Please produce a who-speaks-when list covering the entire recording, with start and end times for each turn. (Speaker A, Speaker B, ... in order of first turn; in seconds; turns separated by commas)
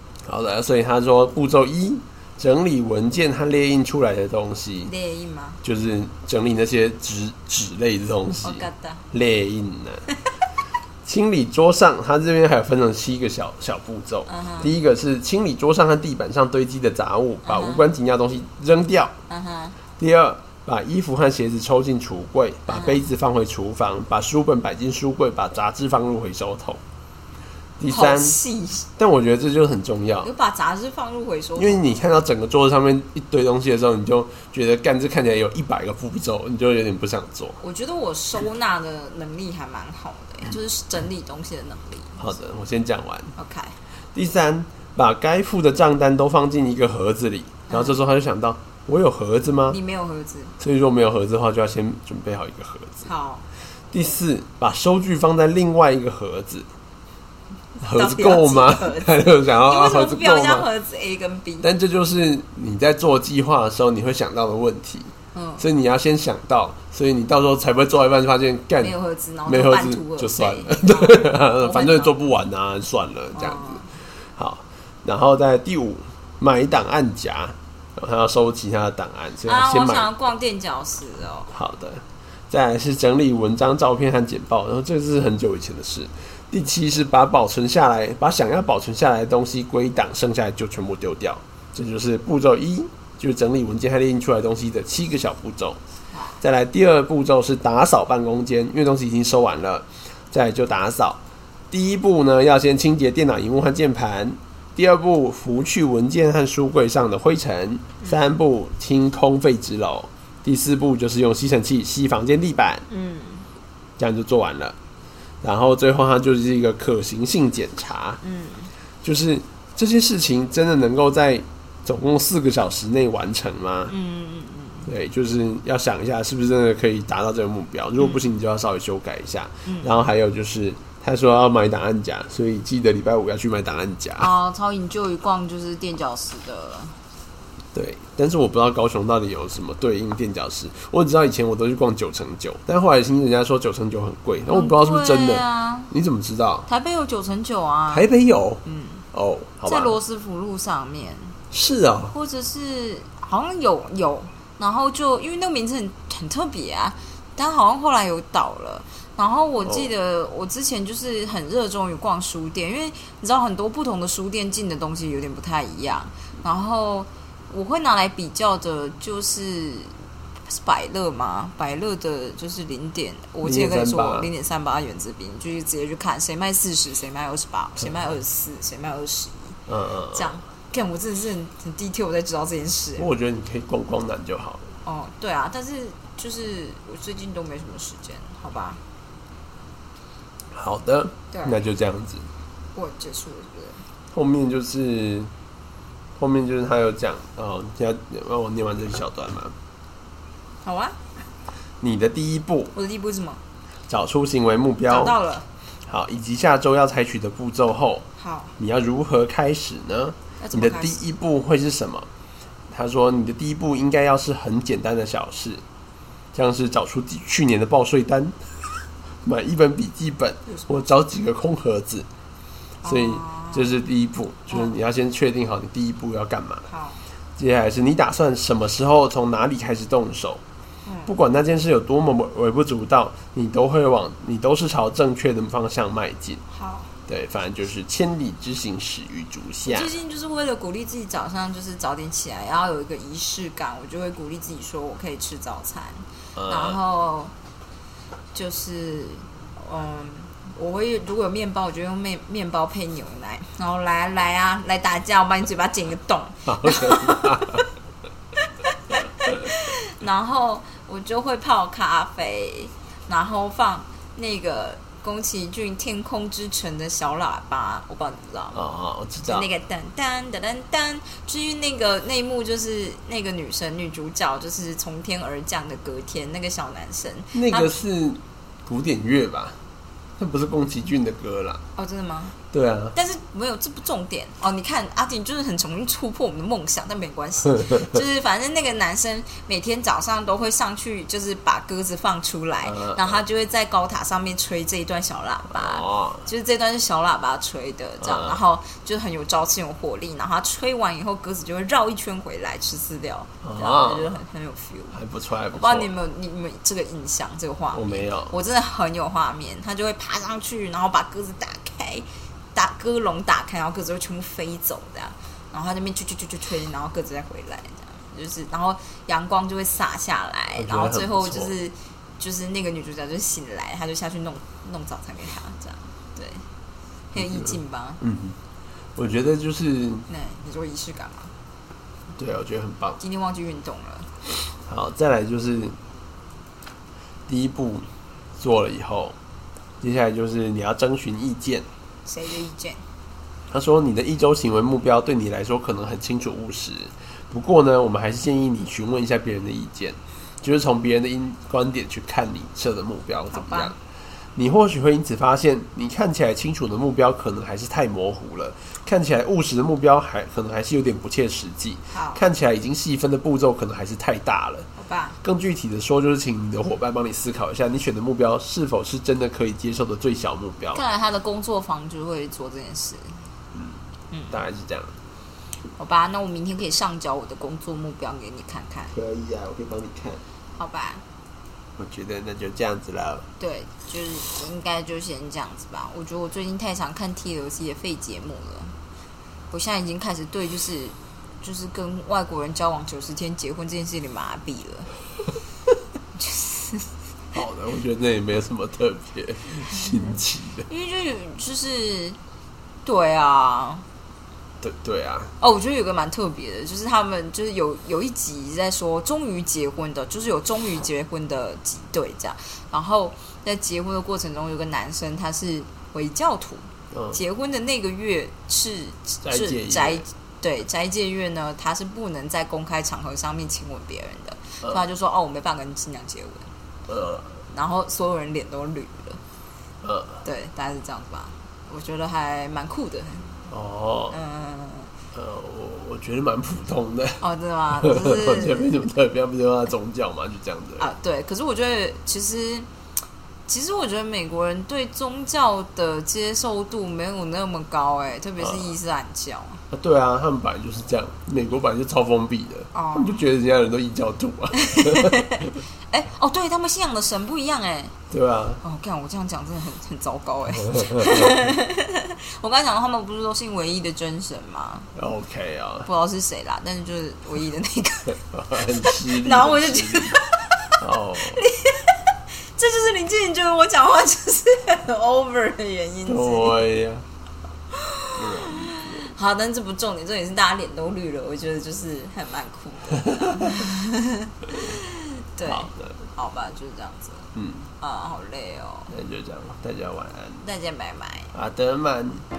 Speaker A: 0.2-4.9, Speaker B: 4.8-5.6, Speaker A: 5.6-10.0, Speaker B: 8.4-9.0, Speaker A: 11.0-19.1, Speaker B: 14.3-14.7, Speaker B: 17.4-17.9, Speaker B: 19.3-19.8, Speaker A: 20.0-26.8, Speaker B: 22.7-23.0, Speaker A: 27.8-28.4, Speaker B: 27.9-28.9, Speaker A: 29.0-30.3, Speaker B: 30.2-31.9, Speaker A: 31.6-37.6, Speaker B: 37.6-42.3, Speaker A: 42.2-43.3, Speaker B: 43.4-43.8, Speaker A: 44.1-49.8, Speaker B: 47.7-48.0, Speaker B: 49.7-50.5, Speaker A: 50.6-53.1, Speaker B: 53.0-53.5, Speaker A: 53.9-56.7, Speaker A: 57.8-60.7, Speaker B: 57.8-61.7, Speaker A: 61.6-68.9, Speaker B: 65.3-65.7, Speaker B: 68.8-72.2, Speaker A: 69.5-73.8, Speaker B: 73.3-73.9, Speaker A: 74.3-80.1, Speaker B: 79.4-81.5, Speaker A: 81.5-95.8, Speaker B: 96.1-96.4, Speaker A: 96.4-101.2, Speaker A: 101.7-112.8, Speaker B: 108.0-108.3, Speaker B: 112.9-113.5, Speaker A: 114.0-114.8, Speaker A: 115.4-118.2, Speaker B: 118.2-118.7, Speaker A: 119.0-123.9, Speaker B: 123.9-124.9, Speaker A: 124.8-134.3, Speaker B: 128.0-128.3, Speaker B: 129.6-130.0, Speaker B: 134.2-137.0, Speaker A: 137.7-146.7, Speaker B: 144.5-145.9, Speaker B: 146.7-148.1, Speaker A: 147.9-148.6, Speaker B: 148.6-149.0, Speaker A: 149.1-150.0, Speaker B: 149.6-151.4, Speaker A: 151.5-152.1, Speaker B: 152.1-169.9, Speaker A: 159.6-159.9, Speaker B: 170.5-179.6, Speaker A: 173.4-174.3, Speaker A: 179.7-180.3, Speaker B: 180.1-183.1, Speaker A: 183.0-184.6, Speaker B: 184.8-188.8, Speaker A: 190.5-192.3, Speaker B: 191.3-191.6, Speaker B: 192.7-193.8, Speaker A: 194.1-195.3, Speaker A: 196.2-199.5, Speaker B: 200.6-201.1, Speaker A: 201.8-202.7, Speaker B: 202.7-203.4, Speaker A: 203.9-205.1, Speaker B: 204.9-205.5, Speaker A: 205.9-208.1, Speaker B: 208.2-208.5, Speaker A: 208.6-212.1, Speaker B: 210.4-211.0, Speaker A: 212.7-215.6, Speaker A: 216.3-218.4, Speaker A: 219.2-222.1, Speaker B: 220.5-220.8, Speaker B: 222.8-223.8, Speaker A: 222.8-226.7, Speaker B: 224.5-224.7, Speaker B: 226.7-227.0, Speaker A: 227.4-230.4, Speaker B: 230.8-231.1, Speaker A: 231.1-236.4, Speaker B: 236.5-236.9, Speaker A: 237.1-239.9, Speaker B: 239.6-247.3, Speaker A: 246.3-246.8, Speaker B: 248.3-257.7, Speaker A: 256.4-257.6, Speaker B: 258.7-268.6, Speaker A: 268.5-269.5, Speaker B: 269.2-277.7, Speaker A: 277.3-279.6, Speaker A: 280.2-281.6, Speaker B: 281.8-282.4, Speaker A: 282.5-282.9, Speaker B: 282.9-305.0, Speaker A: 292.6-293.2, Speaker A: 295.5-296.3, Speaker A: 298.0-298.4, Speaker A: 303.4-304.2, Speaker A: 304.9-305.9, Speaker B: 305.5-326.4, Speaker A: 307.7-308.3, Speaker A: 320.5-321.5, Speaker B: 327.1-328.0, Speaker A: 327.1-328.4, Speaker A: 328.9-330.1, Speaker B: 330.1-331.3, Speaker A: 332.1-333.0, Speaker B: 333.0-334.1, Speaker A: 334.6-335.8, Speaker A: 337.3-339.1, Speaker A: 339.8-341.7, Speaker B: 342.1-342.8, Speaker A: 343.5-353.8, Speaker B: 353.3-353.7, Speaker A: 354.3-364.7, Speaker B: 361.9-362.2, Speaker B: 364.8-365.2, Speaker A: 365.2-370.8, Speaker B: 370.7-373.2, Speaker A: 373.5-373.8, Speaker B: 374.1-374.4, Speaker A: 374.3-374.9, Speaker B: 375.8-378.9, Speaker A: 378.9-380.2, Speaker B: 380.5-381.0, Speaker A: 381.8-383.2, Speaker B: 383.4-388.7, Speaker B: 389.5-394.9, Speaker B: 396.2-396.9, Speaker A: 397.3-400.7, Speaker B: 399.7-402.2, Speaker B: 402.8-403.8, Speaker A: 404.6-405.3, Speaker B: 405.4-426.5, Speaker A: 416.9-417.2, Speaker A: 419.2-420.0, Speaker A: 426.9-427.3, Speaker B: 427.5-429.2, Speaker A: 429.8-430.2, Speaker B: 430.2-433.4, Speaker A: 433.5-434.1, Speaker B: 434.1-434.9, Speaker A: 435.1-437.2, Speaker B: 437.2-438.8, Speaker A: 437.8-440.9, Speaker B: 440.8-442.7, Speaker B: 443.5-449.6, Speaker A: 448.4-448.7, Speaker A: 449.7-455.2, Speaker B: 452.7-453.2, Speaker B: 454.5-457.9, Speaker A: 458.1-458.6, Speaker B: 458.6-464.9, Speaker A: 460.8-461.3, Speaker A: 464.9-465.9, Speaker B: 465.8-468.2, Speaker A: 468.1-470.2, Speaker B: 468.8-476.6, Speaker A: 470.8-471.4, Speaker A: 476.1-477.1, Speaker B: 477.7-488.9, Speaker A: 478.1-479.1, Speaker A: 483.0-483.5, Speaker A: 485.4-486.0, Speaker A: 487.3-487.7, Speaker A: 488.9-490.4, Speaker B: 490.4-491.3, Speaker A: 491.3-492.2